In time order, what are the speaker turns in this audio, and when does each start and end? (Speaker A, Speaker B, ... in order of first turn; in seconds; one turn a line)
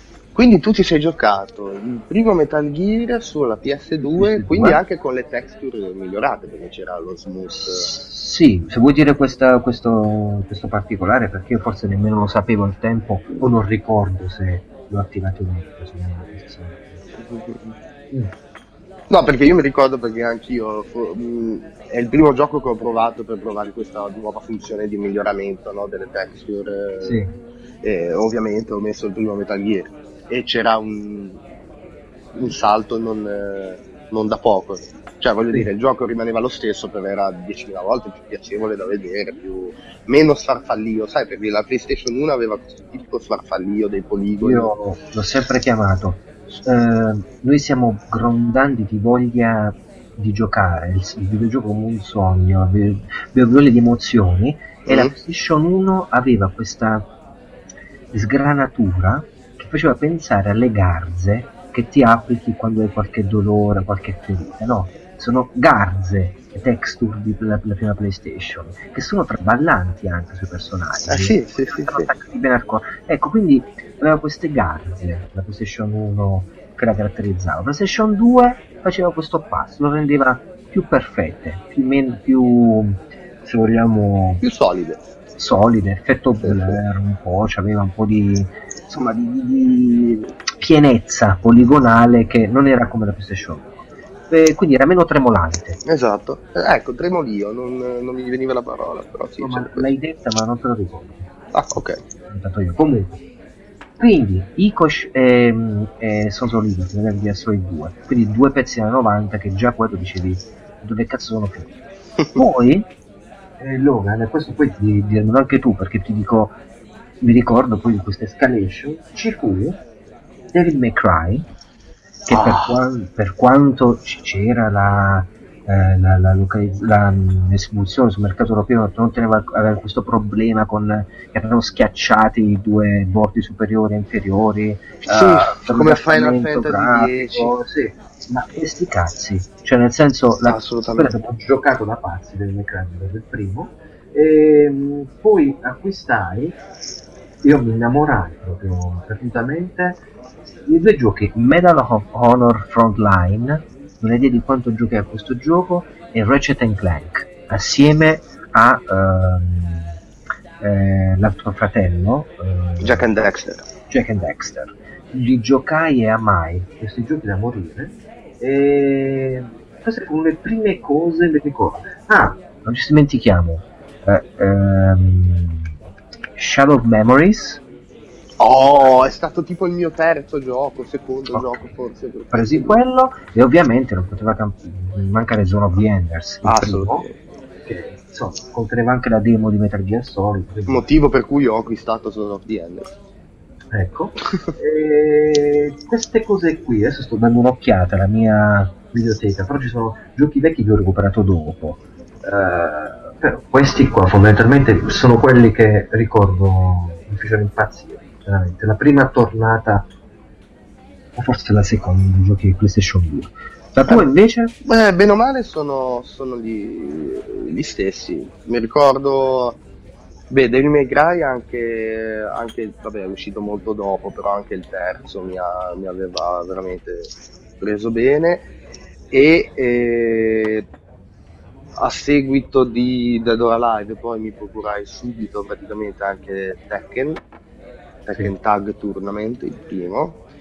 Speaker A: 0.3-7.9
Speaker B: 4.2-4.8
Speaker B: 7.6-17.0
Speaker A: 17.2-17.8
Speaker A: 19.1-27.2
Speaker B: 27.0-27.3
Speaker A: 27.8-31.4
Speaker A: 32.4-44.7
Speaker B: 44.4-57.0
Speaker A: 54.9-55.1
Speaker B: 58.1-84.4
Speaker A: 71.1-72.1
Speaker A: 84.4-85.0
Speaker B: 85.4-93.8
Speaker A: 86.4-86.8
Speaker B: 94.3-95.8
Speaker A: 95.9-99.9
Speaker B: 99.4-101.3
Speaker A: 101.5-102.0
Speaker B: 102.3-103.2
Speaker B: 104.0-111.7
Speaker B: 112.3-112.9
Speaker B: 113.6-116.6
Speaker B: 117.2-119.8
Speaker B: 120.5-121.4
Speaker B: 122.3-146.6
Speaker A: 122.3-122.8
Speaker A: 135.1-137.6
Speaker A: 140.4-141.1
Speaker B: 147.4-150.0
Speaker B: 150.7-159.9
Speaker B: 160.6-163.1
Speaker A: 162.8-163.7
Speaker B: 163.9-175.7
Speaker B: 176.4-177.6
Speaker A: 178.4-182.8
Speaker B: 181.3-181.7
Speaker B: 182.3-187.0
Speaker A: 186.4-187.2
Speaker B: 187.7-190.9
Speaker A: 190.7-192.9
Speaker B: 193.7-209.9
Speaker B: 211.2-214.5
Speaker A: 214.6-219.6
Speaker A: 220.3-228.5
Speaker A: 229.1-230.6
Speaker A: 231.8-237.2
Speaker A: 238.1-240.2